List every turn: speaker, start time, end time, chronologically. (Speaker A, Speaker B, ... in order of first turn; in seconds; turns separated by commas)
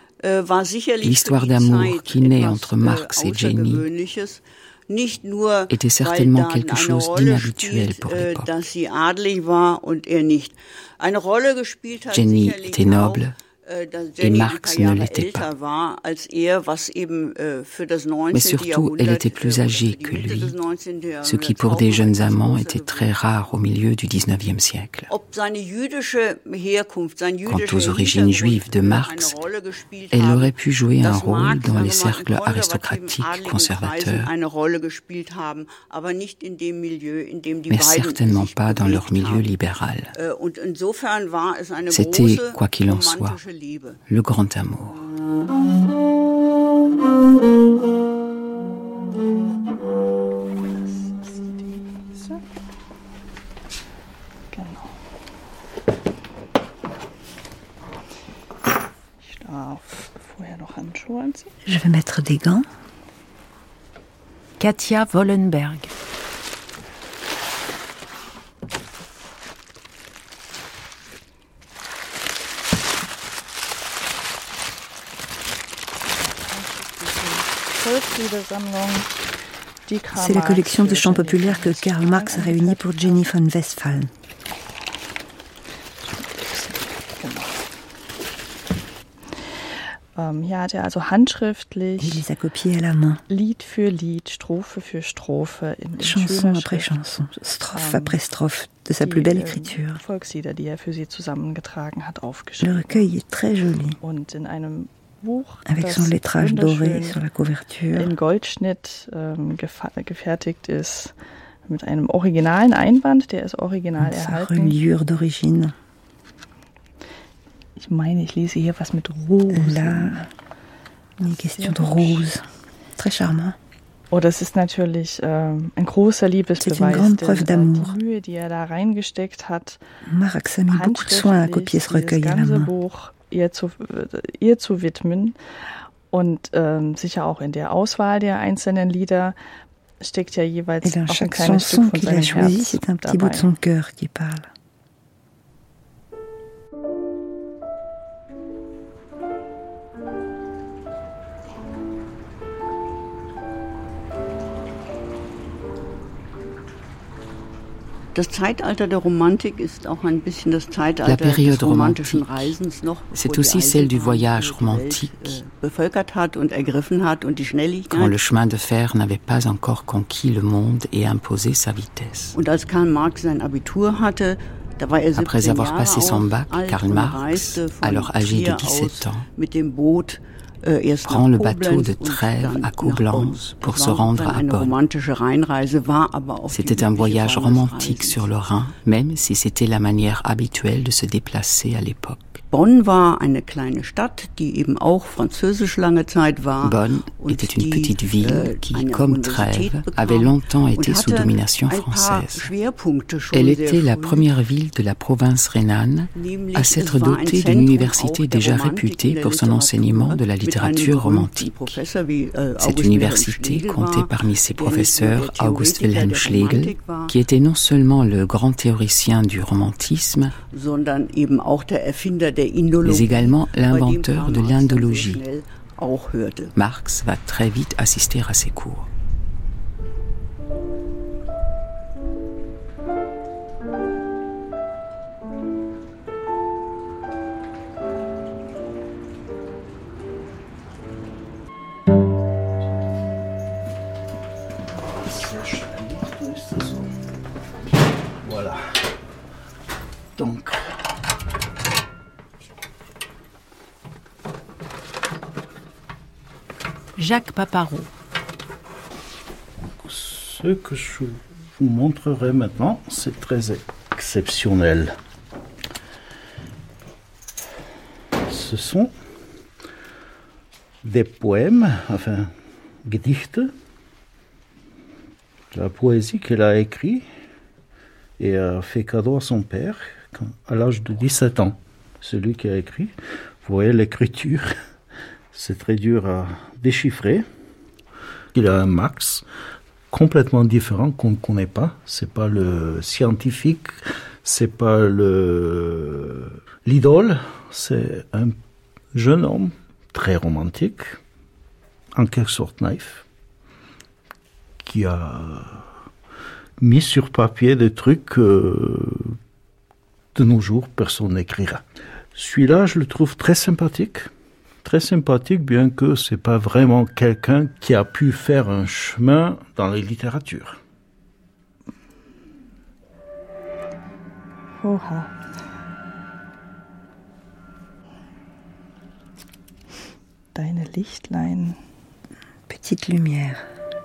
Speaker A: 0.2-23.1, Speaker B: 1.0-3.9, Speaker B: 5.7-8.5, Speaker B: 12.1-13.3, Speaker B: 14.2-15.5, Speaker B: 18.3-20.6, Speaker B: 21.2-25.1, Speaker A: 25.1-39.5, Speaker B: 27.5-29.4, Speaker B: 30.1-34.3, Speaker B: 37.7-40.1, Speaker A: 40.1-44.0, Speaker B: 41.9-43.4, Speaker B: 44.1-45.0, Speaker C: 50.6-52.4, Speaker C: 54.5-54.9, Speaker C: 59.2-61.5, Speaker D: 61.6-62.6, Speaker E: 64.6-65.9, Speaker C: 76.5-79.1, Speaker C: 79.9-83.3, Speaker D: 80.1-84.1, Speaker C: 86.2-87.6, Speaker C: 90.1-92.2, Speaker D: 92.0-93.2, Speaker C: 93.3-96.9, Speaker D: 96.0-100.0, Speaker C: 97.7-98.2, Speaker C: 99.0-103.1, Speaker D: 102.6-104.0, Speaker C: 104.0-107.2, Speaker D: 105.7-108.1, Speaker C: 108.0-111.1, Speaker C: 111.7-114.8, Speaker D: 114.0-115.8, Speaker C: 117.8-120.2, Speaker D: 119.5-120.3, Speaker D: 121.2-122.5, Speaker C: 121.4-122.3, Speaker D: 123.0-123.6, Speaker C: 124.1-129.8, Speaker D: 126.6-128.0, Speaker D: 130.1-132.7, Speaker C: 130.7-135.4, Speaker C: 136.1-139.3, Speaker C: 140.0-143.5, Speaker D: 140.8-144.5, Speaker A: 158.2-168.2, Speaker B: 161.0-162.5, Speaker B: 163.1-165.4, Speaker B: 167.9-172.4, Speaker A: 172.3-188.2, Speaker B: 175.2-179.2, Speaker B: 181.1-184.8, Speaker B: 186.5-192.4, Speaker A: 192.5-204.3, Speaker B: 196.6-202.5, Speaker B: 203.3-211.8, Speaker A: 206.2-217.1, Speaker B: 212.6-220.3, Speaker A: 220.5-226.5, Speaker B: 222.8-225.2, Speaker B: 226.6-228.9, Speaker F: 244.8-246.9, Speaker F: 248.2-248.6, Speaker F: 250.2-250.6, Speaker E: 257.0-257.9, Speaker F: 259.8-265.0, Speaker F: 268.3-268.9, Speaker F: 270.8-272.3, Speaker F: 272.9-273.5, Speaker F: 275.5-277.1, Speaker F: 278.2-284.5, Speaker F: 285.3-287.2, Speaker F: 288.3-289.2, Speaker F: 289.9-298.4, Speaker F: 298.9-301.0, Speaker F: 301.9-303.1, Speaker F: 304.6-305.6, Speaker F: 306.6-309.1, Speaker F: 310.1-311.6, Speaker F: 312.1-314.1, Speaker F: 314.6-320.6, Speaker C: 324.6-325.1, Speaker C: 330.4-331.6, Speaker D: 332.5-333.4